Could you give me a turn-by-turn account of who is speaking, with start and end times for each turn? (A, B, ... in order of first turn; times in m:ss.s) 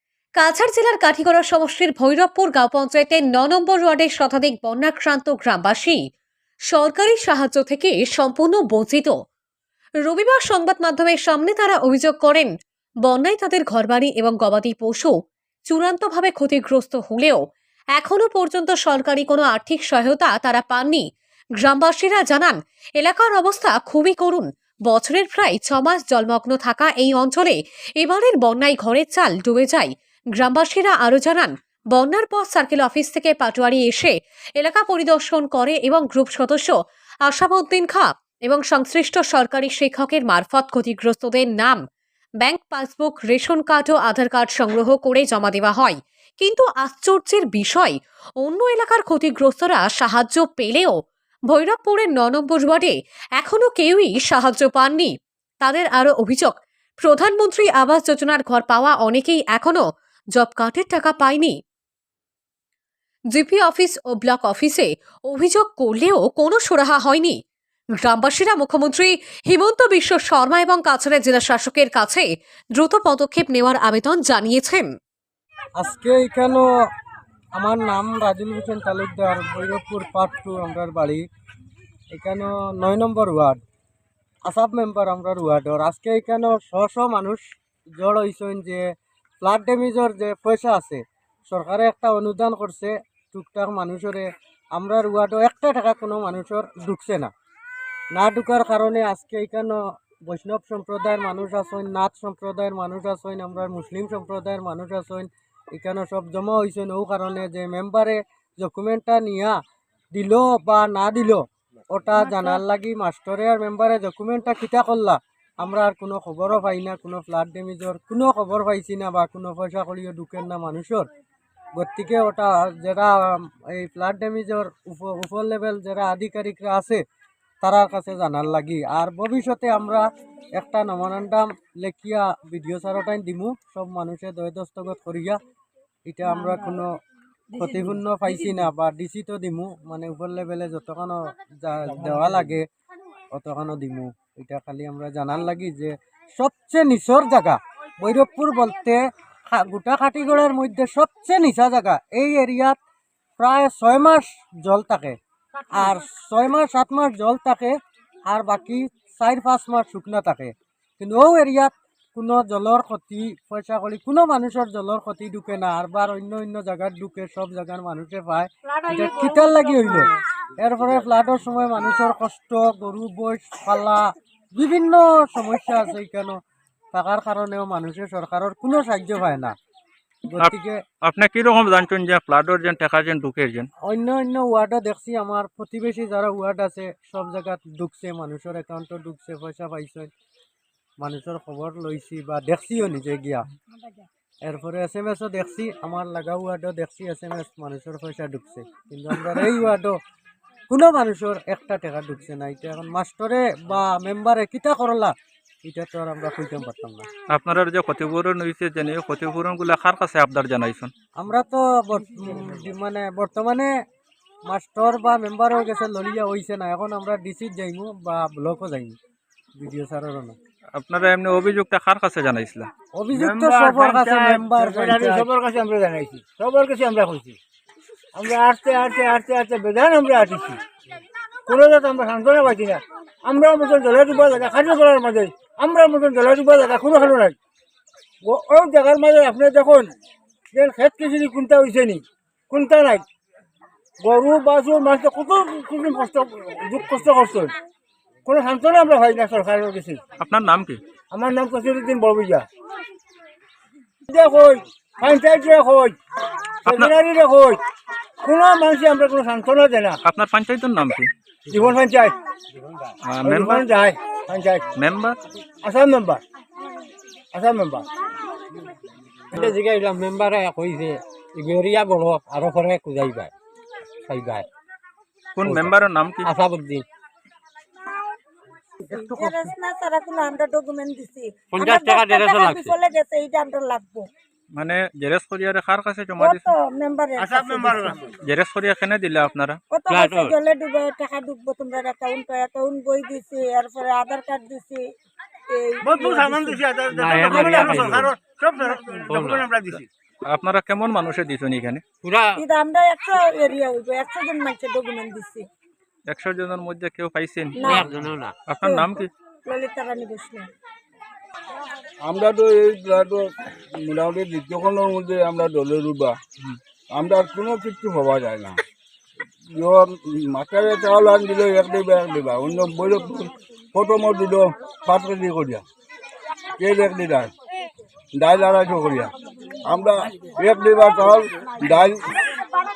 0:00.4-0:06.0 A
0:06.7-0:09.1 A
0:10.0-0:12.5 A
0:13.0-0:15.1 A
0:15.7-0:17.4 A
0:18.0-0:21.0 A
0:21.6-0:36.7 A
0:37.3-0:41.8 A
0:42.4-0:51.0 A
0:51.5-0:56.5 A
0:57.0-0:59.8 A
1:00.4-1:01.6 A
1:03.3-1:07.4 A
1:08.0-1:14.9 A
1:15.8-1:16.7 B
1:17.6-1:21.2 B
1:22.1-1:23.6 B
1:24.5-1:27.4 B
1:28.0-1:28.8 B
1:29.4-1:37.3 B
1:38.1-1:49.6 B
1:50.1-2:01.1 B
2:01.8-2:07.0 B
2:07.6-2:10.0 B
2:10.6-2:15.4 B
2:16.1-2:16.9 B
2:17.5-2:22.6 B
2:23.3-2:32.8 B
2:33.4-2:35.2 B
2:35.7-2:37.7 B
2:38.3-2:56.4 B
2:56.9-2:59.6 B
3:00.3-3:00.8 B
3:00.4-3:03.7 C
3:03.8-3:10.1 B
3:11.0-3:13.4 B
3:14.4-3:20.0 B
3:20.7-3:27.1 B
3:27.3-3:30.9 C
3:31.2-3:33.7 B
3:34.5-3:39.0 B
3:39.6-3:40.4 B
3:40.8-3:42.7 C
3:43.0-3:45.3 B
3:43.2-3:47.4 D
3:48.1-3:50.6 D
3:51.5-3:57.4 D
3:58.2-3:59.9 D
4:00.5-4:03.1 D
4:04.0-4:07.6 D
4:08.2-4:10.0 D
4:10.2-4:10.8 C
4:11.1-4:12.5 D
4:14.1-4:16.0 D
4:16.6-4:16.9 C
4:16.7-4:17.6 D
4:18.2-4:20.0 D
4:20.0-4:21.1 C
4:21.5-4:22.2 D
4:23.0-4:23.7 C
4:23.2-4:24.6 D
4:24.8-4:25.2 C
4:25.6-4:26.2 D
4:27.3-4:27.8 D
4:29.3-4:33.3 E
4:34.0-4:34.5 E
4:35.4-4:36.3 C
4:35.4-4:36.8 E
4:38.9-4:44.1 F
4:41.5-4:42.7 E
4:44.5-4:46.5 C
4:46.2-4:48.0 F
4:47.2-4:48.0 D
4:48.2-4:49.6 C
4:49.7-4:54.8 F
4:49.9-4:50.4 E
4:55.5-4:56.6 F
4:55.8-4:59.8 D
4:57.0-4:58.1 E
4:57.3-4:57.7 F
4:59.1-4:59.5 E
4:59.7-5:01.8 C
5:02.0-5:02.4 E
5:02.4-5:05.5 F
5:06.1-5:07.8 C
5:07.6-5:07.9 F
5:07.6-5:08.4 E
5:08.5-5:09.1 C
5:08.6-5:10.5 F
5:12.0-5:16.2 G
5:16.9-5:18.6 G
5:19.5-5:25.6 G
5:26.6-5:27.3 G
5:28.1-5:32.2 G